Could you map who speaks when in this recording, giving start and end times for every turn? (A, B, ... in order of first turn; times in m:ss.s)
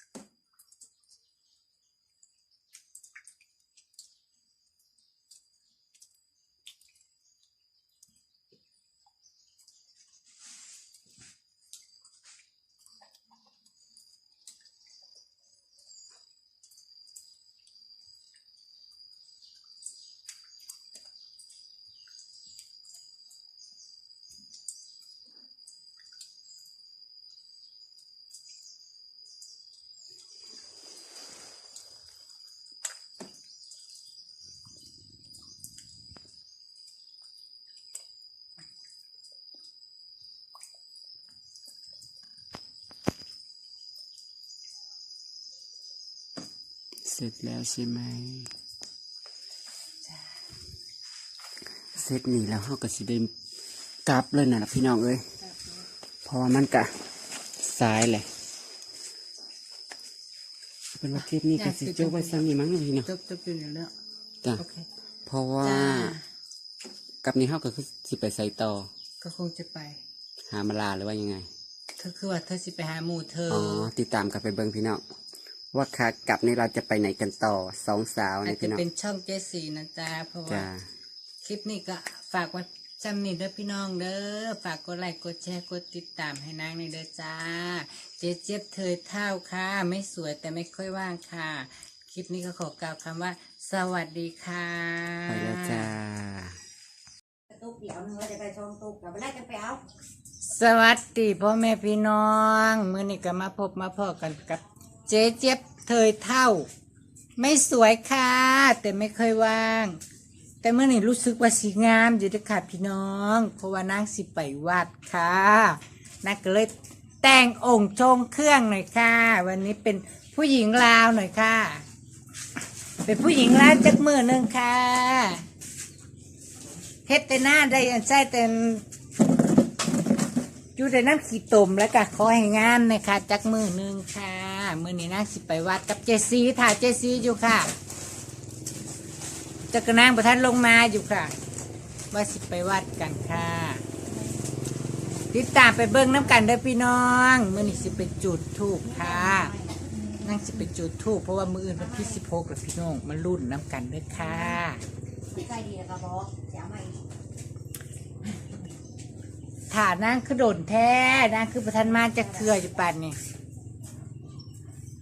0:47.0-0:48.5 A
0:52.0-0:53.3 A
0:54.1-0:55.3 A
0:56.2-0:56.9 A
0:57.6-0:58.3 A
1:01.0-1:03.1 A
1:01.2-1:02.5 B
1:03.0-1:03.9 B
1:04.6-1:04.9 B
1:05.3-1:06.2 A
1:05.6-1:06.2 B
1:07.2-1:08.9 A
1:09.2-1:10.0 B
1:10.5-1:11.5 A
1:12.0-1:13.9 B
1:13.5-1:15.0 A
1:15.7-1:18.8 A
1:18.4-1:20.7 B
1:20.5-1:20.8 A
1:21.4-1:35.9 B
1:35.3-1:36.6 A
1:37.5-1:39.8 C
1:40.4-1:46.7 B
1:47.4-1:50.0 B
1:50.6-2:01.8 B
2:03.0-2:05.4 B
2:07.1-2:08.8 B
2:10.8-2:17.7 B
2:19.7-2:21.3 B
2:22.1-2:23.8 B
2:25.3-2:29.5 B
2:28.9-2:29.7 C
2:30.2-2:34.8 B
2:31.9-2:32.1 C
2:35.3-2:37.0 C
2:39.7-2:43.2 B